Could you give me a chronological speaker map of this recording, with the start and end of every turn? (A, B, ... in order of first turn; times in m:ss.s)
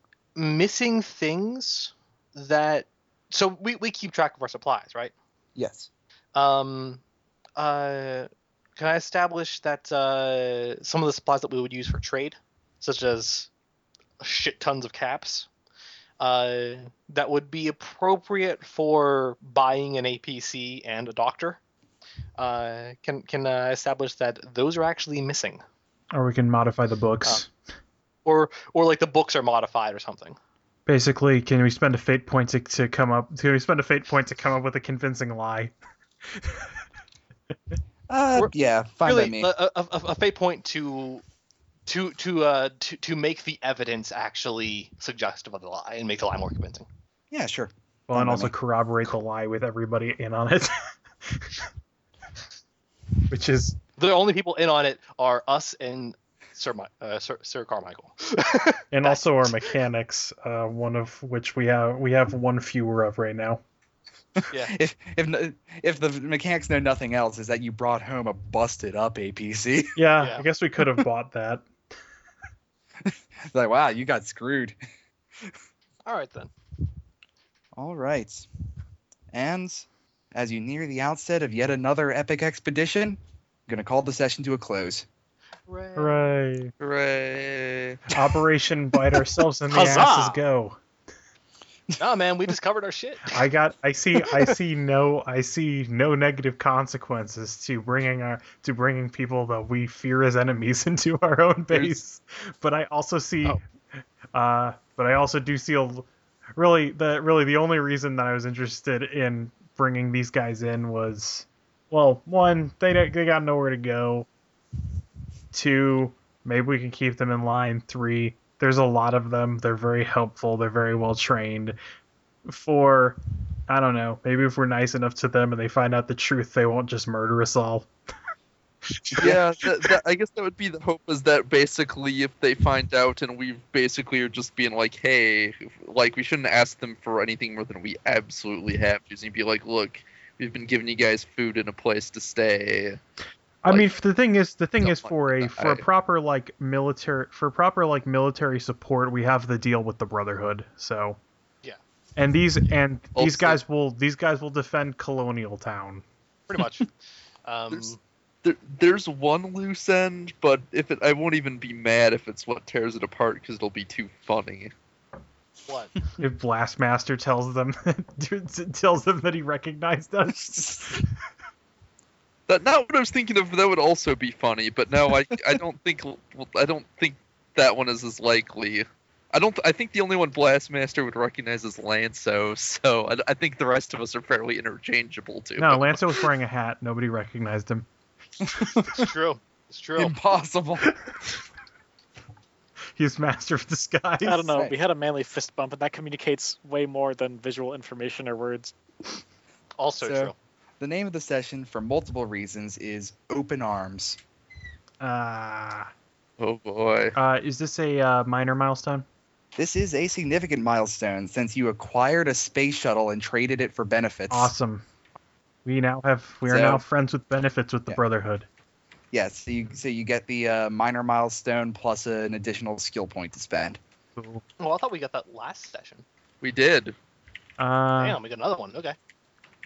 0:00.4-0:05.1 A
0:05.5-0:05.9 B
0:06.3-0:07.0 A
0:07.6-0:13.5 A
0:14.2-0:15.5 A
0:16.2-0:21.6 A
0:22.4-0:25.6 A
0:26.1-0:27.5 C
0:28.2-0:30.4 A
0:30.9-0:35.7 C
0:38.1-0:39.5 B
0:39.0-0:41.2 A
0:41.8-0:46.9 A
0:47.3-0:48.5 B
0:48.1-0:51.5 C
0:53.3-0:53.8 C
0:54.0-0:59.7 A
0:58.9-1:03.6 C
1:04.4-1:10.0 B
1:04.5-1:04.7 A
1:10.0-1:11.6 C
1:10.2-1:10.4 A
1:13.0-1:14.8 B
1:16.0-1:16.5 A
1:17.7-1:18.5 B
1:19.3-1:25.1 B
1:25.7-1:26.3 A
1:26.0-1:26.7 C
1:26.8-1:28.0 D
1:28.1-1:30.8 C
1:29.7-1:30.3 E
1:29.7-1:30.3 A
1:32.0-1:33.4 A
1:33.3-1:43.6 C
1:44.3-1:54.3 C
1:55.5-2:01.8 C
2:02.5-2:07.9 C
2:09.1-2:09.4 C
2:09.2-2:23.0 D
2:23.6-2:31.2 C
2:23.6-2:23.9 D
2:24.8-2:25.8 D
2:32.2-2:36.0 C
2:33.1-2:33.6 D
2:36.5-2:36.9 A
2:37.4-2:38.0 A
2:38.4-2:44.7 D
2:45.6-2:46.0 A
2:46.2-2:51.0 C
2:50.3-2:50.9 B
2:52.5-3:06.0 D
3:05.6-3:07.9 C
3:08.5-3:08.9 B
3:08.9-3:10.2 A
3:10.0-3:10.9 B
3:13.0-3:14.6 C
3:14.2-3:18.7 E
3:19.8-3:20.3 A
3:20.0-3:24.2 B
3:25.0-3:25.9 C
3:26.4-3:27.1 D
3:27.2-3:29.0 C
3:29.5-3:34.5 B
3:34.3-3:34.8 C
3:35.6-3:38.5 C
3:36.4-3:36.8 B
3:39.1-3:43.8 B
3:44.2-3:44.4 C
3:44.6-3:46.0 A
3:46.4-3:46.9 D
3:47.6-3:48.2 C
3:48.0-3:49.0 A